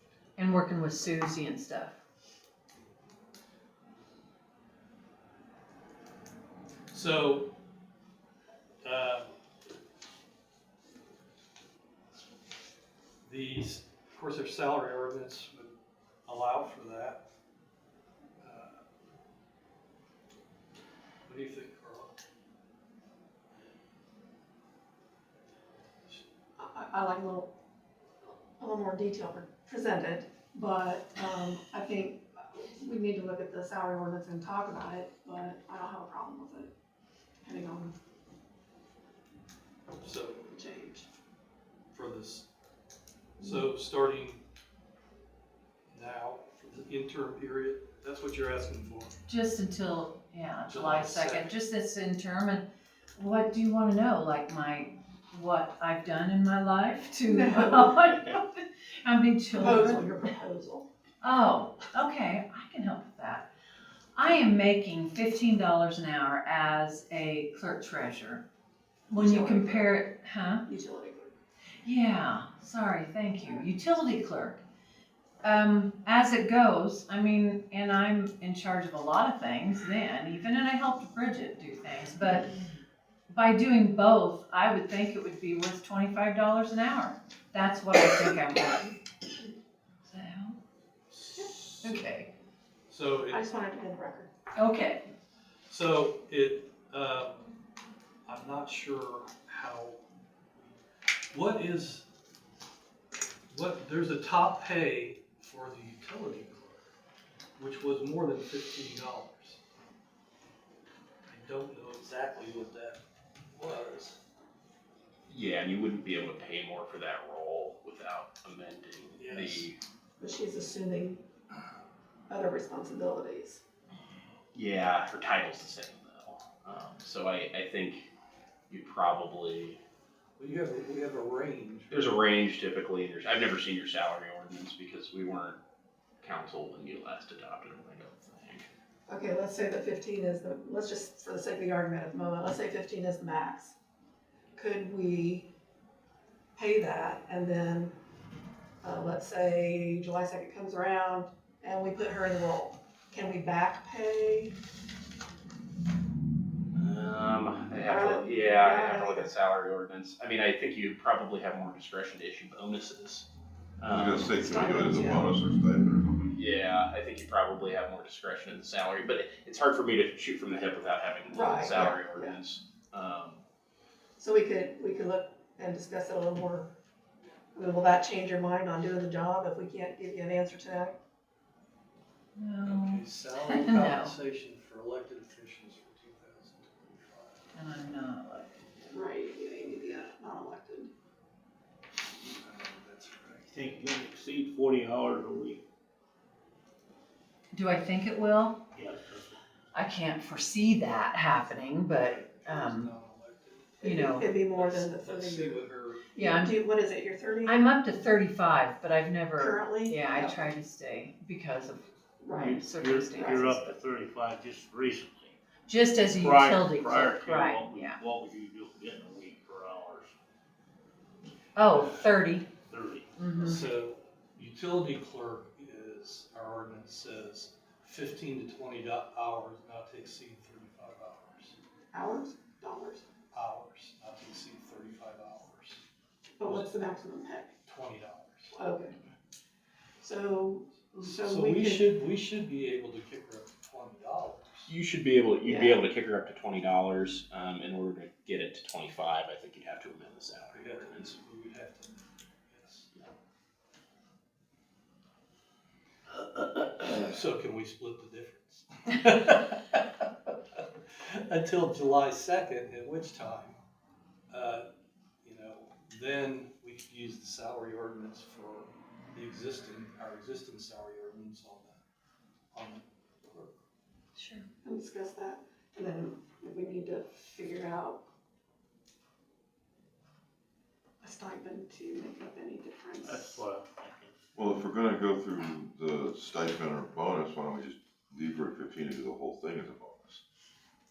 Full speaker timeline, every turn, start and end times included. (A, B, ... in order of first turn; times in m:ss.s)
0:00.4-0:01.9 A
0:06.9-0:07.5 B
0:08.8-0:09.3 B
0:13.2-0:17.2 B
0:18.4-0:18.8 B
0:21.3-0:22.2 B
0:26.6-0:27.5 C
0:28.2-0:36.7 C
0:37.4-0:37.9 C
0:40.0-0:40.5 B
0:40.5-0:41.1 C
0:41.9-0:42.5 B
0:43.4-0:44.4 B
0:45.9-0:49.2 B
0:49.3-0:52.6 A
0:50.7-0:51.6 B
0:53.2-1:00.0 A
0:57.2-0:58.1 C
0:59.5-1:00.8 C
1:01.2-1:03.5 A
1:04.2-1:08.4 A
1:09.1-1:10.6 A
1:09.1-1:10.0 C
1:10.6-1:11.4 C
1:11.8-1:14.6 A
1:15.4-1:22.5 A
1:23.3-1:29.0 A
1:30.0-1:30.6 A
1:31.1-1:32.0 B
1:31.8-1:32.3 A
1:32.9-1:33.4 B
1:33.3-1:34.3 C
1:34.5-1:35.0 A
1:35.7-1:37.5 B
1:38.2-1:40.0 B
1:41.3-1:42.0 B
1:43.5-1:46.9 B
1:47.6-1:49.6 B
1:51.3-1:53.0 B
1:53.5-1:54.2 B
1:55.3-1:59.8 D
1:59.2-1:59.7 B
2:00.2-2:01.2 C
2:02.3-2:03.6 C
2:04.5-2:08.1 D
2:08.7-2:09.8 D
2:10.4-2:12.0 B
2:11.9-2:15.6 D
2:16.2-2:18.7 D
2:19.1-2:23.7 C
2:24.5-2:25.5 C
2:26.6-2:27.9 C
2:28.8-2:34.5 C
2:36.8-2:43.2 D
2:37.8-2:39.3 C
2:43.8-2:44.3 D
2:43.9-2:46.3 E
2:44.3-2:45.3 C
2:46.3-2:53.4 D
2:51.3-2:52.4 C
2:54.2-2:56.7 C
2:57.5-3:01.0 C
3:02.4-3:04.2 A
3:02.6-3:07.4 B
3:07.5-3:08.6 A
3:08.9-3:10.9 C
3:12.2-3:13.5 B
3:13.5-3:15.6 F
3:17.5-3:18.6 A
3:18.7-3:19.4 F
3:19.7-3:22.9 A
3:21.9-3:26.1 B
3:23.8-3:25.6 C
3:23.8-3:24.3 A
3:26.2-3:26.6 A
3:26.2-3:27.7 C
3:27.4-3:33.8 A
3:29.4-3:30.4 C
3:32.2-3:32.6 C
3:32.3-3:35.4 F
3:33.1-3:33.5 C
3:35.7-3:38.0 A
3:36.0-3:40.1 F
3:41.5-3:42.5 A
3:42.7-3:43.1 F
3:43.1-3:43.6 A
3:43.3-3:51.6 B
3:51.9-3:53.0 C
3:53.3-3:55.8 B
3:56.4-3:57.5 C
3:56.4-3:56.7 B
3:57.6-3:58.6 B
3:58.5-3:58.9 C
4:00.0-4:01.9 C
4:00.7-4:04.7 B
4:04.7-4:11.1 D
4:05.4-4:05.8 C
4:10.5-4:12.9 B
4:16.2-4:20.0 B
4:20.6-4:23.6 B
4:24.3-4:24.6 B
4:25.2-4:31.8 B
4:32.5-4:33.6 B
4:34.2-4:34.5 A
4:34.6-4:38.0 C
4:41.0-4:43.4 C
4:43.0-4:44.1 F
4:44.3-4:50.2 E